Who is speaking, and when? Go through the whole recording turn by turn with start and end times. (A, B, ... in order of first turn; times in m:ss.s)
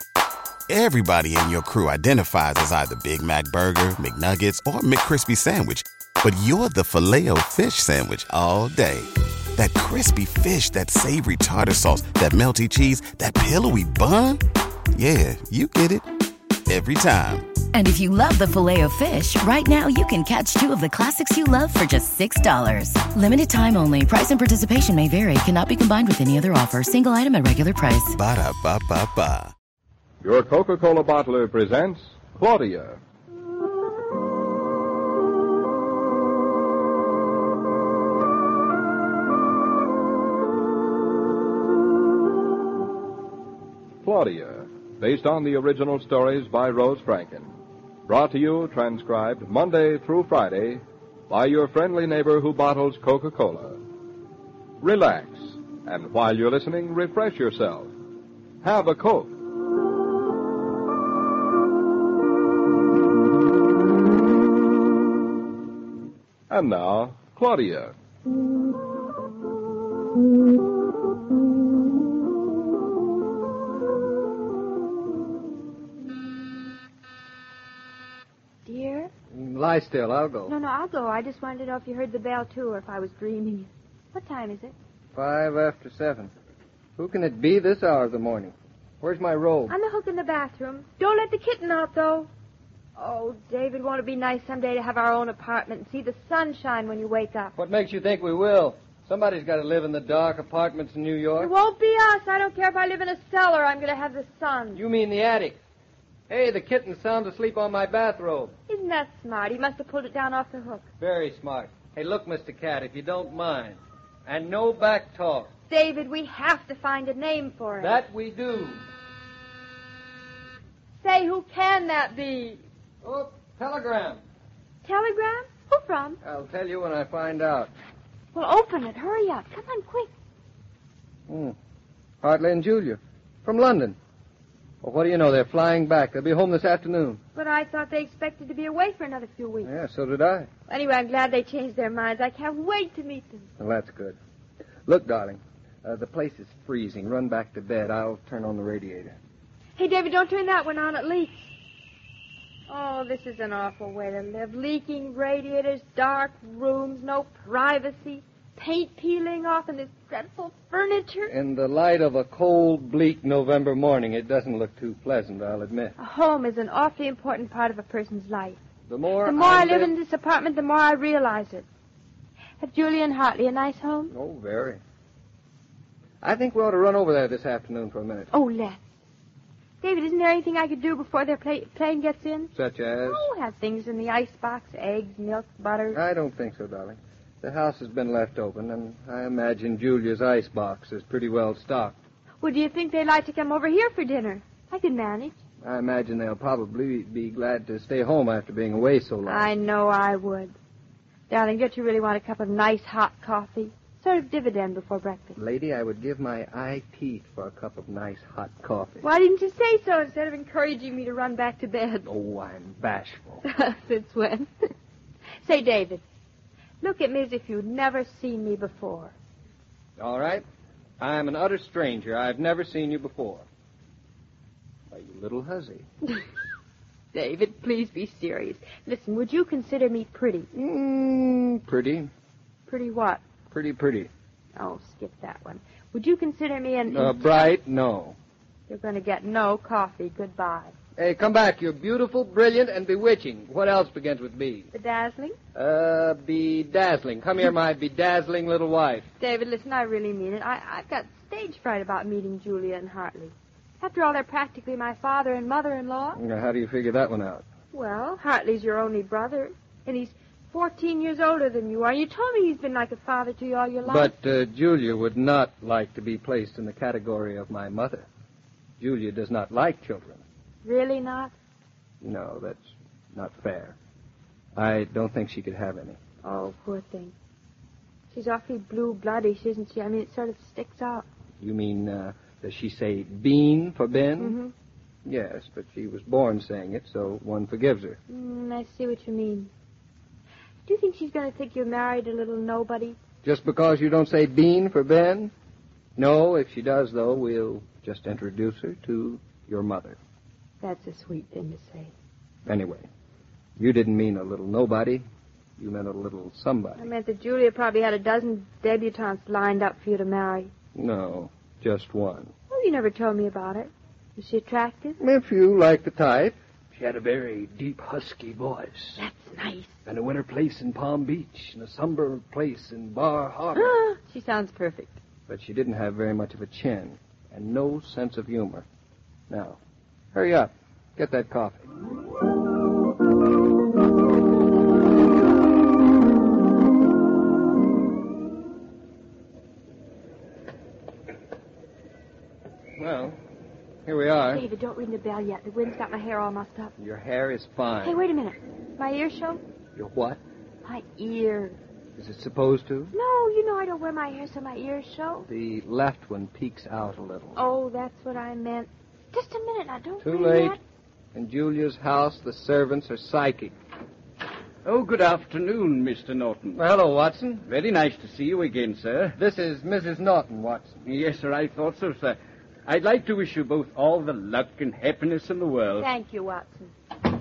0:00.7-0:14.4 A
0:14.9-0:16.1 A
0:16.7-0:17.5 A
0:17.7-0:28.1 B
0:28.1-0:29.5 A
0:30.2-0:33.0 C
0:44.0-0:47.5 C
0:48.1-0:53.8 C
0:54.8-0:57.9 C
0:58.6-0:59.3 C
1:06.5-1:07.9 C
1:18.7-1:19.1 D
1:19.3-1:20.5 E
1:20.5-1:24.7 D
1:25.1-1:26.3 E
1:27.0-1:29.8 E
1:29.7-1:32.3 D
1:33.0-1:37.5 D
1:37.6-1:41.5 E
1:41.4-1:44.8 D
1:44.7-1:45.6 E
1:46.3-1:48.6 E
1:48.7-1:50.8 D
1:51.0-1:55.5 E
1:55.7-1:58.0 D
1:57.8-1:58.8 E
2:01.0-2:02.6 D
2:03.0-2:04.2 E
2:04.8-2:06.2 D
2:06.2-2:07.7 E
2:08.3-2:10.1 D
2:11.3-2:11.6 E
2:12.2-2:14.0 E
2:14.8-2:17.2 E
2:17.3-2:19.7 D
2:19.6-2:20.5 E
2:20.7-2:23.5 D
2:23.6-2:24.2 E
2:24.9-2:29.2 E
2:29.8-2:31.5 D
2:32.7-2:41.3 D
2:41.2-2:46.0 E
2:46.0-2:48.6 D
2:48.9-2:49.9 E
2:49.2-2:51.7 D
2:52.6-2:54.1 D
2:54.1-2:54.8 E
2:56.2-2:58.3 E
2:58.3-2:58.8 D
2:59.8-3:02.5 D
3:02.5-3:03.3 E
3:03.1-3:06.0 D
3:05.9-3:12.0 E
3:12.4-3:15.4 D
3:15.6-3:19.5 E
3:19.2-3:20.6 D
3:21.3-3:25.4 D
3:25.4-3:29.1 E
3:29.0-3:32.1 D
3:32.1-3:33.4 E
3:33.5-3:34.7 D
3:35.4-3:36.0 D
3:36.8-3:39.1 D
3:40.0-3:40.4 E
3:41.0-3:43.4 E
3:44.9-3:45.8 E
3:47.1-3:50.5 D
3:50.6-3:52.1 E
3:52.7-3:53.2 D
3:53.5-3:54.1 E
3:54.6-3:57.3 D
3:56.9-3:58.2 E
3:58.7-4:00.7 D
4:01.0-4:04.7 E
4:04.7-4:05.4 D
4:05.6-4:09.1 E
4:09.2-4:16.2 D
4:16.1-4:17.4 E
4:17.7-4:24.1 D
4:23.8-4:28.1 E
4:28.8-4:30.2 E
4:30.6-4:31.3 D
4:32.0-4:33.8 E
4:34.6-4:36.0 E
4:36.2-4:37.1 D
4:38.1-4:41.1 D
4:41.4-4:44.4 E
4:44.2-4:44.5 D
4:45.0-4:48.0 E
4:48.1-4:49.5 D
4:50.7-4:53.0 D
4:53.2-4:55.3 E
4:56.0-5:00.0 E
5:00.6-5:01.9 D
5:02.4-5:02.9 E
5:03.6-5:05.0 E
5:05.6-5:06.9 E
5:06.8-5:10.5 D
5:10.8-5:12.3 E
5:12.5-5:15.0 D
5:15.0-5:19.0 E
5:19.0-5:19.8 D
5:19.9-5:23.8 E
5:23.6-5:25.0 D
5:25.3-5:28.7 E
5:29.3-5:29.6 E
5:30.1-5:31.7 E
5:42.8-5:43.2 E
5:43.9-5:44.4 E
5:44.3-5:46.7 D
5:46.8-5:48.0 E
5:47.8-5:49.4 D
5:49.8-5:50.2 E
5:50.6-5:51.6 D
5:52.0-5:52.9 E
5:52.9-5:55.2 D
5:55.2-5:57.4 E
5:57.4-6:00.6 D
6:00.0-6:00.6 E
6:01.1-6:03.5 E
6:04.6-6:06.6 F
6:06.5-6:07.5 E
6:07.4-6:09.2 F
6:09.2-6:10.8 E
6:10.8-6:15.9 F
6:15.8-6:16.7 D